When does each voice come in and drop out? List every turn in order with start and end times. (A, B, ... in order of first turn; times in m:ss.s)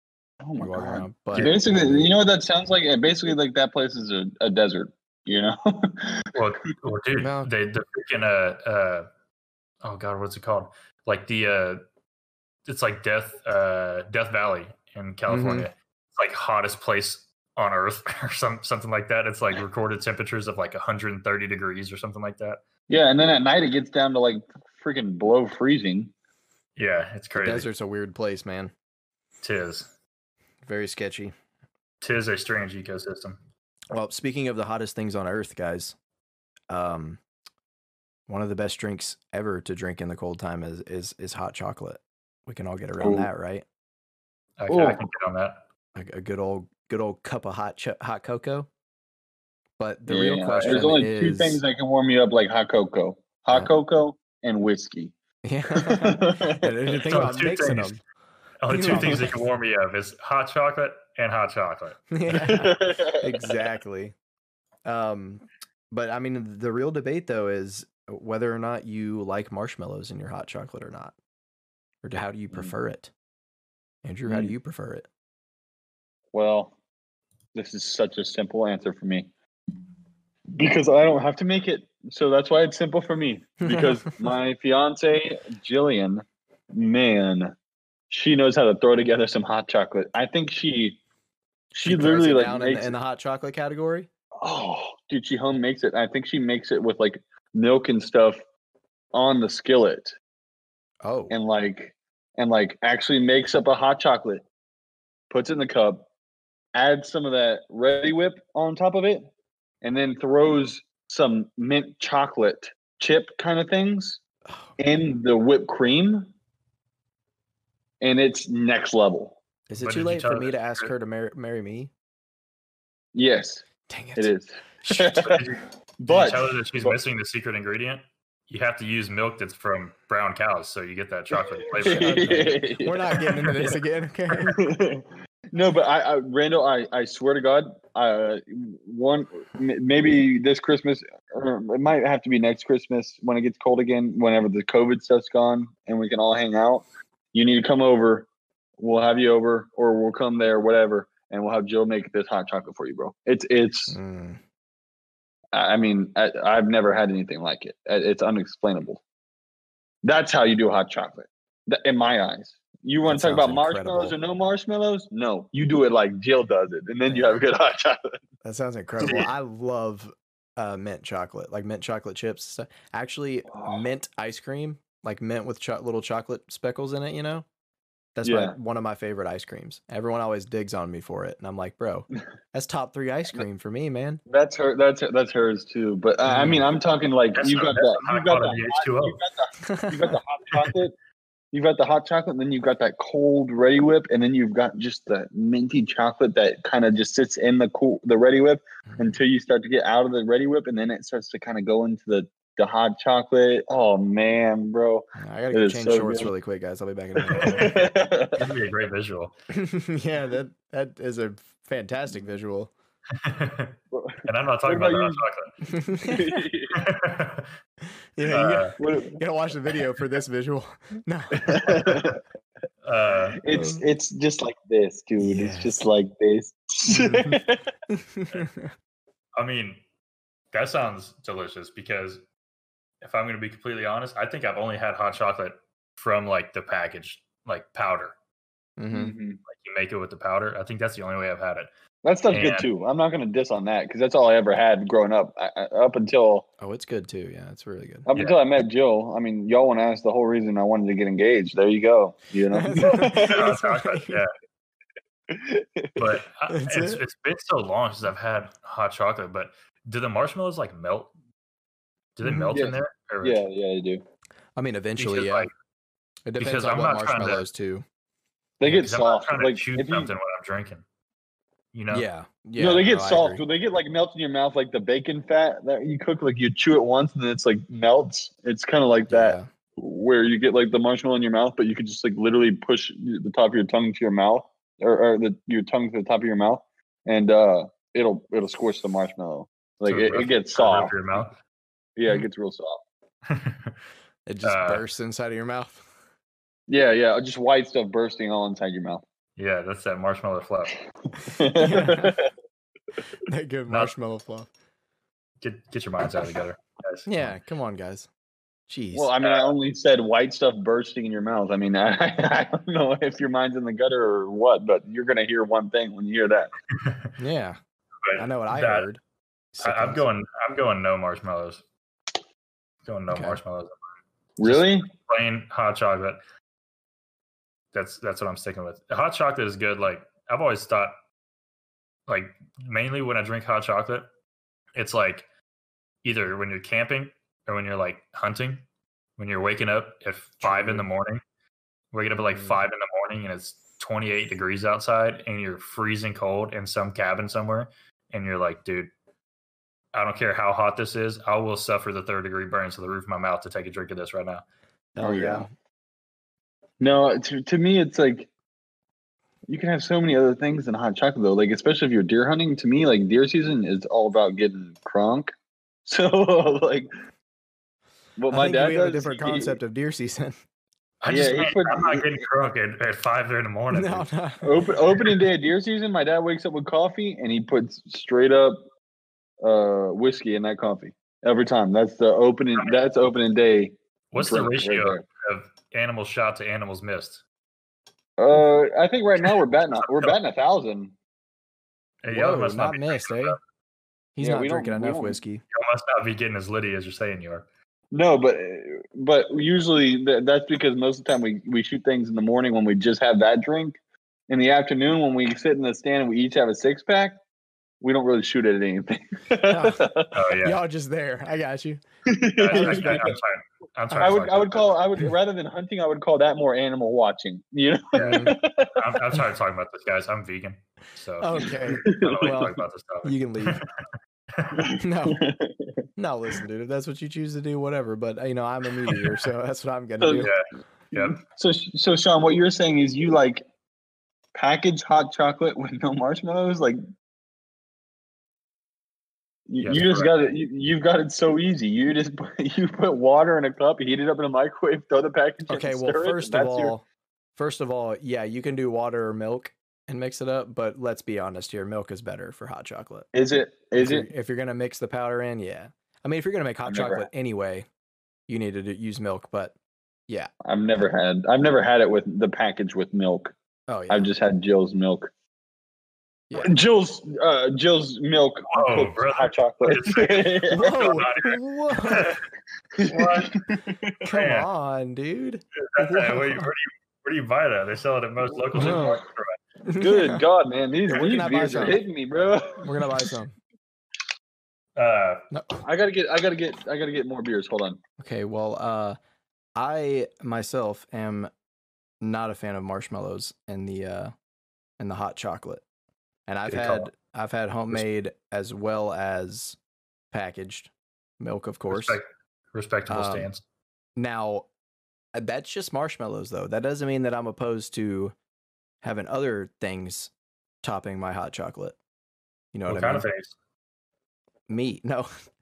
0:00.4-0:06.3 A
0:00.6-0:02.1 B
0:01.3-0:01.6 C
0:06.3-0:09.1 C
0:07.2-0:07.5 B
0:09.8-0:11.8 C
0:12.7-0:22.6 C
0:15.3-0:15.7 B
0:22.9-0:26.1 A
0:26.8-0:27.7 C
0:27.4-0:28.7 B
0:29.4-0:29.9 C
0:30.6-0:31.3 B
0:32.0-0:33.4 C
0:33.9-0:36.0 B
0:36.7-0:37.2 B
0:38.3-0:43.6 B
0:43.0-0:43.3 A
0:44.6-0:45.6 C
0:44.7-0:45.0 A
0:46.0-0:48.7 B
0:49.8-0:51.6 B
0:50.1-0:55.1 A
0:50.5-0:51.0 C
0:55.4-0:58.0 B
0:55.8-0:57.3 A
0:57.0-0:58.0 C
0:58.6-1:02.1 C
0:58.7-0:59.3 B
1:02.1-1:04.1 B
1:02.4-1:03.6 A
1:04.8-1:11.2 B
1:12.0-1:13.1 B
1:14.0-1:15.1 B
1:14.3-1:14.5 A
1:16.3-1:16.8 A
1:17.6-1:19.3 A
1:20.5-1:27.5 A
1:23.6-1:24.1 B
1:28.1-1:31.0 A
1:31.7-1:32.9 A
1:31.8-1:34.1 B
1:34.4-1:38.4 A
1:39.1-1:40.2 A
1:41.0-1:41.3 B
1:41.3-1:44.4 A
1:45.3-1:46.1 A
1:46.7-1:49.3 A
1:49.8-1:54.2 A
1:54.8-1:56.3 A
1:58.0-1:59.4 A
1:59.7-2:01.9 B
1:59.8-2:00.9 C
2:03.1-2:05.5 A
2:03.9-2:04.3 B
2:05.1-2:12.6 C
2:06.0-2:07.0 A
2:11.3-2:13.8 A
2:11.8-2:14.6 B
2:14.4-2:34.0 A
2:33.9-2:34.4 B
2:35.5-2:39.0 A
2:40.0-2:48.2 A
2:43.1-2:44.2 B
2:47.1-2:47.4 B
2:48.4-2:57.4 B
2:53.5-2:53.8 A
2:58.2-3:04.2 B
2:58.2-2:58.6 A
3:04.3-3:10.9 A
3:06.3-3:06.6 B
3:07.4-3:09.2 C
3:09.6-3:10.2 B
3:11.5-3:26.3 A
3:18.9-3:19.2 B
3:25.2-3:27.8 B
3:27.2-3:28.5 A
3:27.3-3:29.3 C
3:29.5-3:32.7 B
3:33.2-3:35.5 C
3:33.9-3:35.2 A
3:35.7-3:36.3 B
3:36.0-3:36.9 A
3:36.7-3:37.5 C
3:38.2-3:42.0 B
3:38.2-3:38.8 C
3:38.8-3:39.2 A
3:41.4-3:42.2 A
3:42.8-3:43.4 C
3:43.4-3:47.6 A
3:43.5-3:43.8 B
3:45.2-3:45.8 B
3:46.9-3:48.7 B
3:49.4-3:49.8 C
3:50.5-3:52.2 C
3:53.0-3:58.2 C
3:58.8-3:59.2 B
3:58.9-3:59.4 A
3:59.5-4:01.7 C
4:02.0-4:06.5 A
4:02.3-4:02.7 C
4:06.6-4:08.1 B
4:08.1-4:13.5 A
4:12.5-4:14.2 B
4:13.0-4:14.3 C
4:15.3-4:16.1 A
4:16.0-4:21.1 C
4:16.5-4:17.0 B
4:22.2-4:23.4 C
4:22.2-4:22.6 B
4:22.5-4:24.0 A
4:24.6-4:25.5 B
4:25.0-4:25.5 C
4:26.3-4:27.8 B
4:26.4-4:27.4 C
4:28.6-4:30.2 A
4:28.6-4:30.8 C
4:31.7-4:32.1 C
4:31.9-4:33.4 B
4:32.6-4:50.9 A
4:39.1-4:39.5 B
4:49.9-4:51.3 C
4:52.0-4:52.8 A
4:53.3-4:53.8 C
4:54.3-4:55.8 B
4:54.4-4:54.8 C
4:56.7-4:59.0 A
4:59.4-5:00.8 C
5:01.2-5:02.3 A
5:01.5-5:02.2 B
5:03.3-5:04.5 B
5:05.4-5:07.3 C
5:07.1-5:08.1 B
5:08.7-5:09.1 B
5:08.9-5:16.5 A
5:09.2-5:09.5 C
5:16.7-5:17.1 C
5:17.2-5:17.6 B
5:18.0-5:18.9 C
5:18.1-5:19.0 B
5:19.5-5:20.1 B
5:19.6-5:21.6 C
5:22.8-5:23.8 C
5:23.1-5:23.4 B
5:24.4-5:24.9 A
5:24.4-5:26.2 C
5:27.7-5:31.0 C
5:32.1-5:34.1 C
5:34.8-5:35.3 C
5:36.0-5:38.6 C
5:39.2-5:41.2 C
5:40.4-5:40.9 B
5:41.9-5:48.9 C
5:42.3-5:42.6 B
5:49.9-5:54.4 C
5:55.0-5:55.5 B
5:55.0-5:55.5 A
5:56.8-5:58.3 A
5:59.5-6:05.3 A
6:05.9-6:06.9 A
6:08.2-6:09.6 A
6:08.3-6:10.4 B
6:11.0-6:14.1 C
6:11.1-6:12.2 A
6:13.7-6:14.7 B
6:14.4-6:18.6 A
6:19.4-6:25.0 A
6:24.1-6:27.2 C
6:28.2-6:30.9 A
6:29.9-6:30.2 C
6:32.0-6:33.4 C
6:32.1-6:33.4 B
6:34.2-6:35.4 B
6:34.2-6:35.2 A
6:35.5-6:37.5 C
6:37.9-6:43.8 A
6:44.3-6:47.2 A
6:47.8-6:50.1 A
6:49.4-6:49.8 B
6:50.1-6:50.6 C
6:50.4-6:51.8 B
6:52.1-6:53.2 A
6:52.4-6:54.8 C
6:52.5-6:53.2 B
6:53.9-6:59.0 A
6:57.9-7:03.7 C
6:58.0-6:58.4 B
7:01.2-7:03.6 B
7:01.7-7:02.5 A
7:04.4-7:04.7 C
7:04.5-7:05.8 A
7:04.8-7:05.2 B
7:06.0-7:10.3 B
7:08.9-7:09.2 C
7:10.0-7:10.3 A
7:10.2-7:11.2 C
7:10.9-7:13.4 A
7:14.4-7:16.8 A
7:19.5-7:26.8 A
7:19.6-7:20.2 C
7:25.5-7:26.8 B
7:27.4-7:33.1 B
7:33.1-7:34.1 A
7:33.8-7:37.7 B
7:36.7-7:37.1 A
7:38.3-7:39.6 B
7:40.4-7:43.3 A
7:43.7-7:44.1 B
7:43.9-7:45.1 A
7:46.3-7:46.6 B
7:46.4-7:51.1 A
7:48.5-7:52.2 C
7:50.5-7:52.1 B
7:52.8-7:53.9 A
7:52.8-7:53.4 C
7:54.0-7:56.5 B
7:54.1-7:54.5 C
7:55.7-7:59.4 C
7:58.5-7:59.0 B
7:58.6-7:58.9 A
7:59.6-8:00.2 B
7:59.8-8:03.0 A
8:00.9-8:01.8 B
8:02.6-8:03.4 B
8:04.8-8:05.2 C
8:05.3-8:05.6 B
8:05.6-8:07.8 A
8:08.0-8:09.0 B
8:09.6-8:11.3 B
8:12.0-8:14.1 B
8:14.8-8:15.6 B
8:16.3-8:19.6 B
8:16.5-8:16.9 C
8:20.1-8:22.0 B
8:21.7-8:23.4 C
8:22.9-8:23.3 B
8:24.0-8:24.5 B
8:25.2-8:28.1 B
8:28.8-8:30.1 B
8:30.6-8:31.8 B
8:32.5-8:33.1 B
8:32.7-8:33.3 C
8:34.5-8:35.1 B